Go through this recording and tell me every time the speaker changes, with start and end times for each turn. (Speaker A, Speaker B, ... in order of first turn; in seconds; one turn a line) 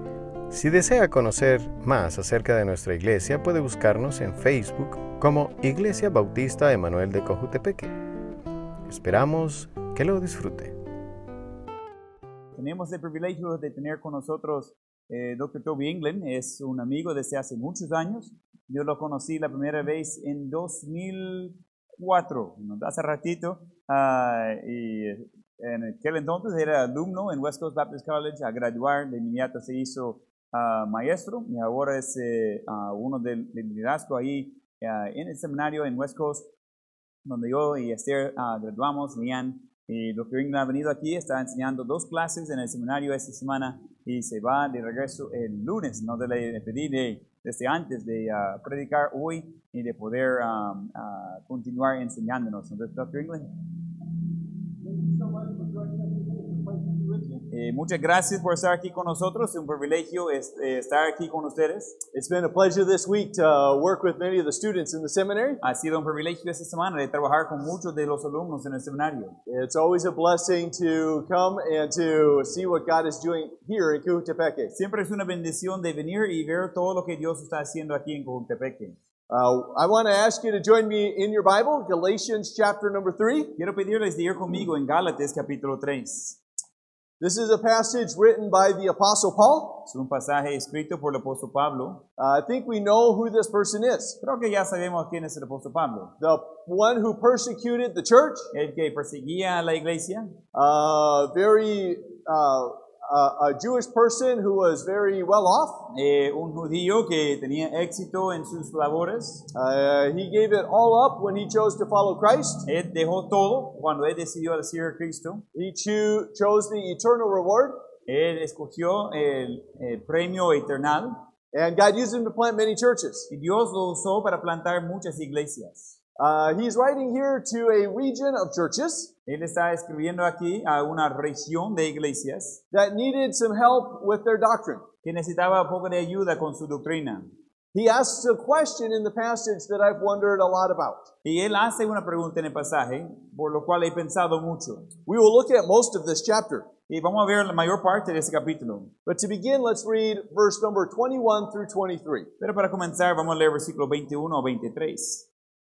Speaker A: 0.5-7.9
Speaker A: 8.8-10.7
Speaker B: 12.6-36.5
Speaker B: 37.2-53.5
Speaker C: 54.8-57.4
Speaker B: 57.5-62.0
Speaker C: 62.1-65.6
Speaker B: 65.6-69.4
Speaker C: 69.5-74.7
Speaker B: 74.7-79.0
Speaker C: 79.3-83.5
Speaker B: 83.6-86.4
Speaker C: 87.2-89.8
Speaker B: 89.8-92.0
Speaker C: 92.2-94.2
Speaker B: 94.2-96.1
Speaker C: 96.2-98.5
Speaker B: 98.5-100.3
Speaker C: 100.5-105.8
Speaker B: 105.9-109.4
Speaker C: 109.5-112.6
Speaker B: 112.7-115.4
Speaker C: 115.5-117.8
Speaker B: 118.1-121.2
Speaker C: 121.5-123.3
Speaker B: 123.3-125.9
Speaker C: 126.2-129.1
Speaker B: 129.3-132.6
Speaker C: 132.7-134.8
Speaker B: 135.0-137.3
Speaker C: 137.7-141.1
Speaker B: 141.2-144.9
Speaker C: 145.1-146.7
Speaker B: 146.9-148.9
Speaker C: 149.1-152.3
Speaker B: 152.4-155.2